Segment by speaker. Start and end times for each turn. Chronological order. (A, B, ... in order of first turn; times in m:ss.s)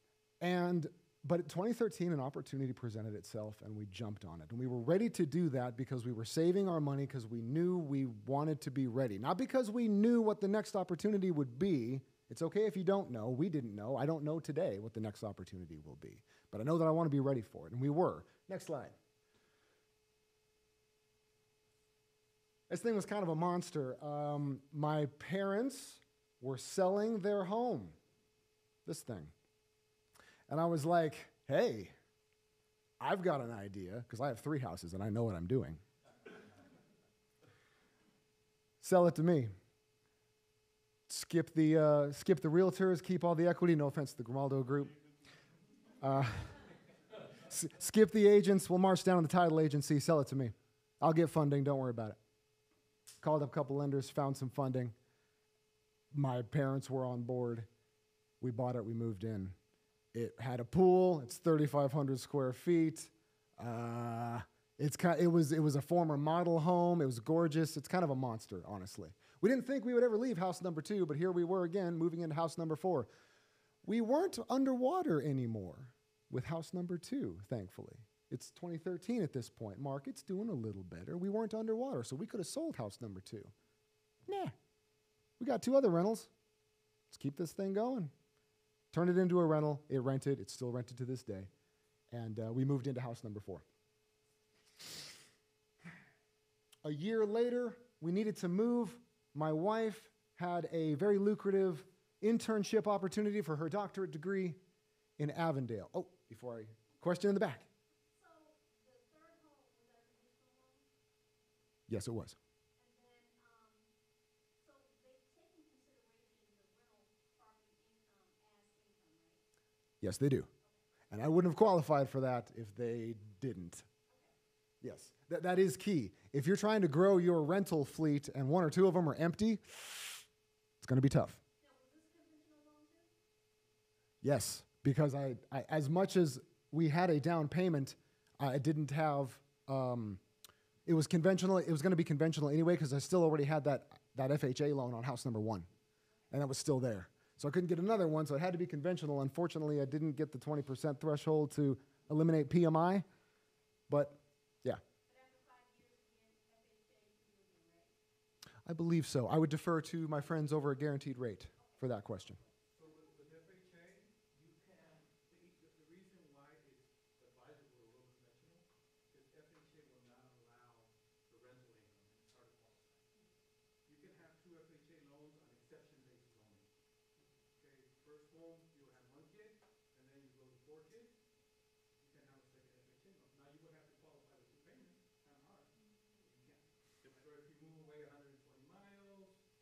0:00.4-0:18.9 A
0:22.7-0:28.0 A
0:28.8-0:29.3 A
0:30.5-0:31.9 A
0:33.0-0:35.8 A
0:38.8-0:39.5 A
0:41.1-0:44.9 A
0:46.0-0:46.6 A
0:47.4-0:52.2 A
0:53.2-0:54.9 A
0:56.1-0:57.7 A
0:58.4-0:59.6 A
1:00.1-1:13.1 A
1:13.8-1:23.5 A
1:24.3-1:24.5 A
1:25.4-1:26.3 A
1:27.1-1:28.1 A
1:28.9-1:31.5 A
1:32.1-1:33.6 A
1:36.8-1:44.6 A
1:45.2-1:47.7 A
1:48.1-1:50.8 B
1:51.9-1:52.4 A
1:52.8-1:53.9 B
1:54.6-1:59.4 B
2:00.0-2:00.5 A
2:01.1-2:03.8 A
2:04.1-2:04.3 B
2:04.8-2:10.2 A
2:10.8-2:11.4 A
2:11.6-2:13.1 B
2:14.2-2:20.2 A
2:20.8-2:25.7 A
2:26.3-2:33.0 A
2:33.9-2:34.8 A
2:35.1-2:37.9 B
2:38.6-2:42.4 A
2:41.6-2:42.6 B
2:42.7-2:53.0 C
2:53.8-2:56.7 C
2:57.5-3:01.2 C
3:02.0-3:09.4 C
3:05.7-3:06.2 B